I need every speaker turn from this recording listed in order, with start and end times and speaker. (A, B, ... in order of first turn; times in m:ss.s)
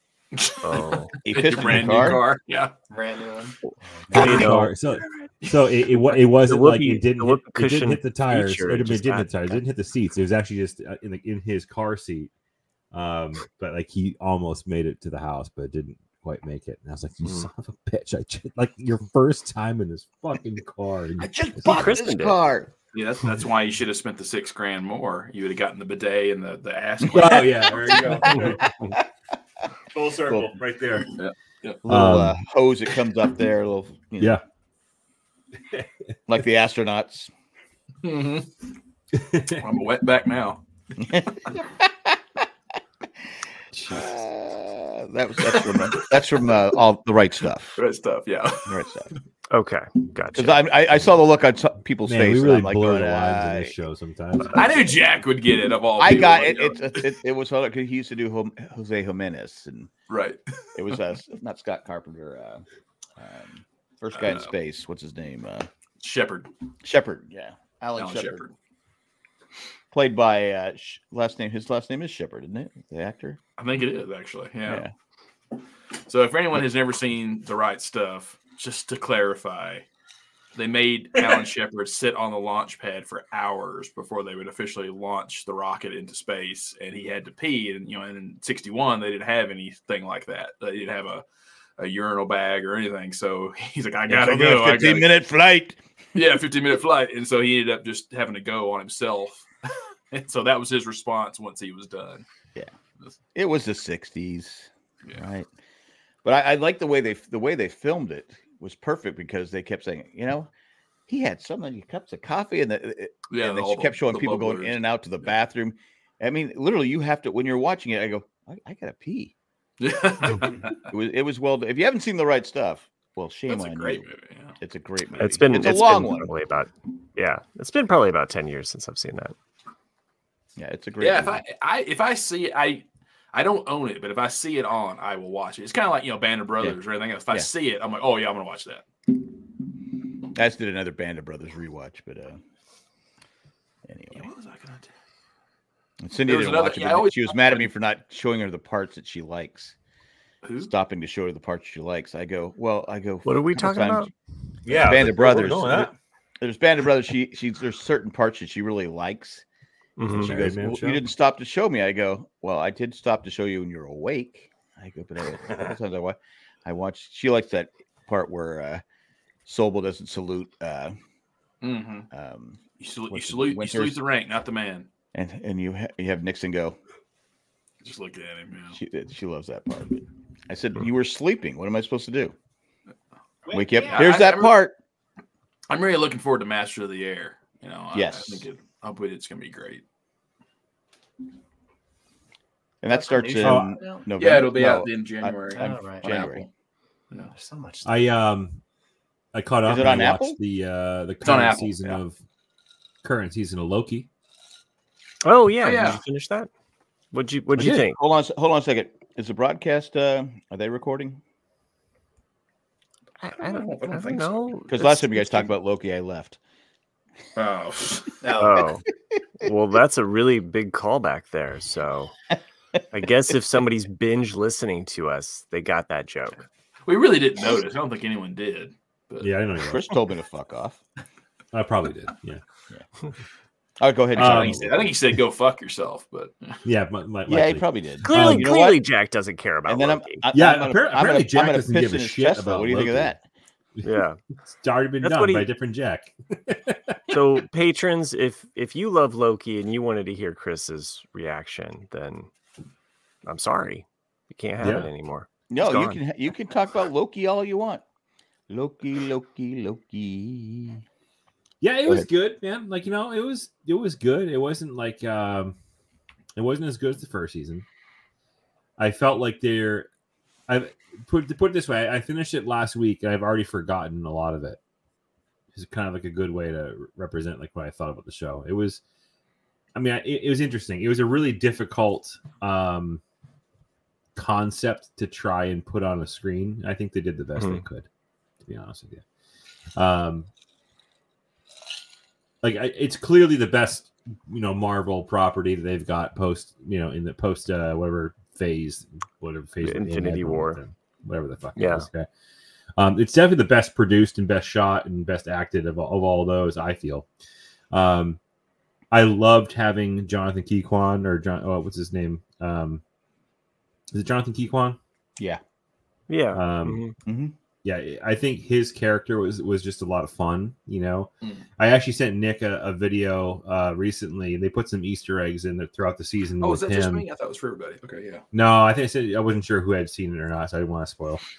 0:00.4-0:02.7 A
0:00.6-0:01.2 B
0:01.2-0:02.3 C
0:02.9-0:04.2 D
0:04.1-0:04.8 B
0:04.1-0:12.3 E
0:06.1-0:09.6 B
0:12.9-0:21.9 E
0:17.2-0:17.5 B
0:21.2-0:22.7 C
0:21.7-0:22.4 B
0:22.9-0:28.3 A
0:27.1-0:28.9 C
0:27.1-0:29.0 E
0:29.9-0:31.2 E
0:30.3-0:30.6 C
0:31.2-0:31.8 A
0:31.8-0:34.4 C
0:31.9-0:32.4 E
0:36.3-0:37.3 C
0:38.0-0:38.5 A
0:39.2-0:39.6 E
0:39.6-0:40.6 A
0:41.0-0:42.4 C
0:43.9-0:47.8 C
0:45.5-0:45.8 A
0:47.8-0:48.8 A
0:48.7-0:49.1 C
0:49.5-0:50.6 B
0:50.4-0:53.8 C
0:52.0-0:54.8 E
0:54.6-0:57.1 A
0:56.0-0:59.9 C
1:00.1-1:00.4 A
1:00.8-1:02.6 C
1:03.2-1:05.7 C
1:04.1-1:04.5 A
1:06.0-1:06.5 A
1:06.8-1:08.5 C
1:08.0-1:08.5 A
1:09.9-1:13.4 C
1:13.6-1:14.9 A
1:14.7-1:14.9 C
1:16.1-1:19.8 A
1:20.6-1:31.2 A
1:31.8-1:35.2 A
1:34.1-1:35.8 C
1:36.2-1:39.5 A
1:40.1-1:42.2 A
1:43.3-1:45.5 C
1:46.2-1:50.5 C
1:51.1-1:59.3 C
1:53.3-1:54.8 A
1:59.8-2:00.8 A
2:00.2-2:04.1 C
2:03.5-2:04.6 A
2:04.6-2:06.3 C
2:05.2-2:09.3 B
2:10.6-2:11.4 C
2:11.0-2:18.8 A
2:20.3-2:22.4 C
2:23.9-2:24.3 C
2:24.1-2:24.9 A
2:26.0-2:29.8 C
2:26.3-2:27.7 A
2:30.4-2:30.7 A
2:30.6-2:34.1 C
2:33.2-2:34.1 B
2:34.6-2:35.9 E
2:34.7-2:39.4 C
2:40.0-2:40.4 B
2:40.1-2:41.0 E
2:40.1-2:48.8 C
2:49.5-2:51.0 C
2:51.6-2:52.1 A
2:52.1-2:54.0 C
2:52.8-2:54.9 A
2:55.1-2:56.8 C
2:57.8-2:58.8 A
2:58.7-3:02.4 C
3:03.5-3:04.8 C
3:03.6-3:03.9 D
3:03.8-3:04.6 A
3:05.7-3:09.8 A
3:07.9-3:08.5 C
3:12.8-3:16.5 C
3:12.9-3:14.1 D
3:13.4-3:13.8 E
3:14.2-3:16.5 A
3:15.5-3:16.1 D
3:17.3-3:17.9 D
3:17.8-3:18.6 E
3:19.3-3:22.2 E
3:19.6-3:20.4 C
3:21.2-3:22.0 A
3:23.0-3:24.1 E
3:25.2-3:26.5 B
3:25.6-3:26.0 A
3:27.1-3:28.0 B
3:27.5-3:31.2 C
3:33.2-3:35.5 B
3:33.4-3:34.6 A
3:34.7-3:36.4 C
3:37.4-3:38.2 A
3:38.2-3:38.6 D
3:38.4-3:38.9 B
3:39.4-3:42.1 B
3:42.9-3:46.4 B
3:46.9-3:49.3 A
3:49.2-3:49.9 E
3:49.6-3:50.8 C
3:51.5-3:52.4 E
3:53.8-3:54.9 C
3:54.1-3:55.0 E
3:54.2-3:56.6 A
3:56.6-3:58.6 E
3:57.3-3:58.8 C
3:58.0-4:00.2 B
3:59.7-4:03.2 C
4:00.3-4:03.1 E
4:03.8-4:04.2 B
4:04.5-4:07.2 E
4:05.0-4:05.5 B
4:07.1-4:12.3 B
4:13.2-4:16.0 B
4:14.6-4:14.9 E
4:15.5-4:17.8 C
4:18.5-4:20.8 C
4:21.6-4:25.6 E
4:26.4-4:27.6 E
4:28.8-4:29.9 E
4:30.5-4:34.6 E
4:35.5-4:38.8 E
4:39.8-4:43.0 E
4:44.2-4:47.9 E
4:47.4-4:47.6 B
4:48.5-4:49.0 E
4:49.8-4:50.3 E
4:52.4-5:02.1 E
4:59.6-5:00.6 B
5:01.6-5:01.9 B
5:02.8-5:07.1 E
5:07.7-5:08.2 E
5:08.9-5:12.8 E
5:13.9-5:14.8 E
5:16.1-5:16.9 B
5:16.3-5:16.8 E
5:17.1-5:17.3 C
5:17.6-5:27.1 E
5:26.4-5:28.2 A
5:28.3-5:31.2 E